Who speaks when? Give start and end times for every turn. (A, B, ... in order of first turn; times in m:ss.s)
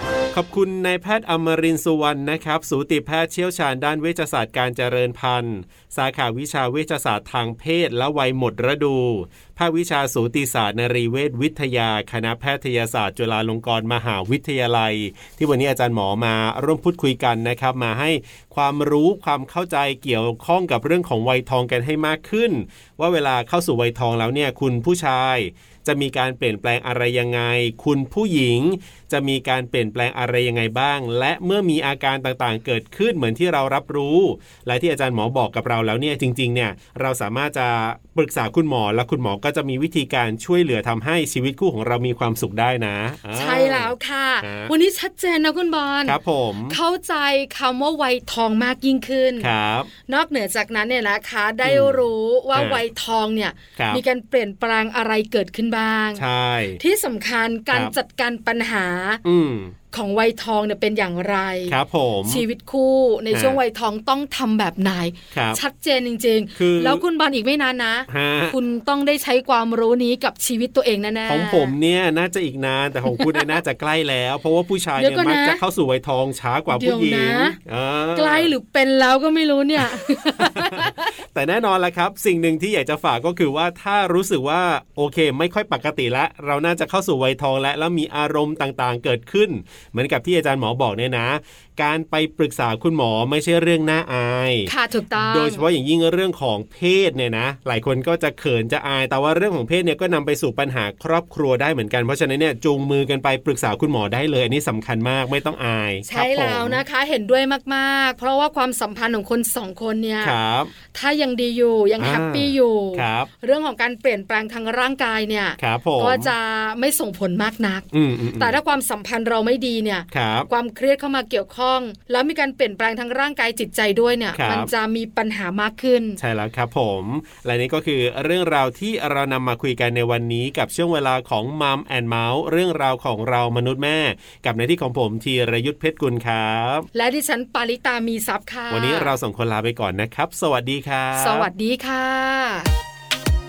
0:00.3-0:44.7 A
0:43.3-0:46.2 B
0:46.0-0:46.8 A
0:46.7-0:49.5 B
0:49.4-0:49.9 A
0:50.1-0:56.2 B
0:51.6-0:52.8 A
0:53.8-0:54.0 A
0:56.1-0:56.8 A
0:56.8-0:59.2 B
0:59.2-0:59.7 A
0:59.9-1:11.7 B
1:01.7-1:02.4 A
1:03.3-1:03.6 A
1:05.3-1:05.6 A
1:06.6-1:07.0 A
1:08.1-1:08.6 A
1:11.3-1:18.5 A
1:13.1-1:13.6 B
1:15.0-1:15.6 B
1:16.7-1:17.6 B
1:18.1-1:21.1 B
1:19.8-1:46.8 A
1:34.6-1:35.6 B
1:46.0-1:50.4 B
1:50.2-1:50.7 A
1:50.9-2:06.2 B
1:52.0-1:53.3 A
1:55.6-1:56.3 A
1:57.9-1:58.6 A
2:00.1-2:00.5 A
2:04.3-2:04.7 A
2:06.2-2:16.9 A
2:16.9-2:19.1 B
2:18.7-2:21.5 A
2:21.1-2:22.7 B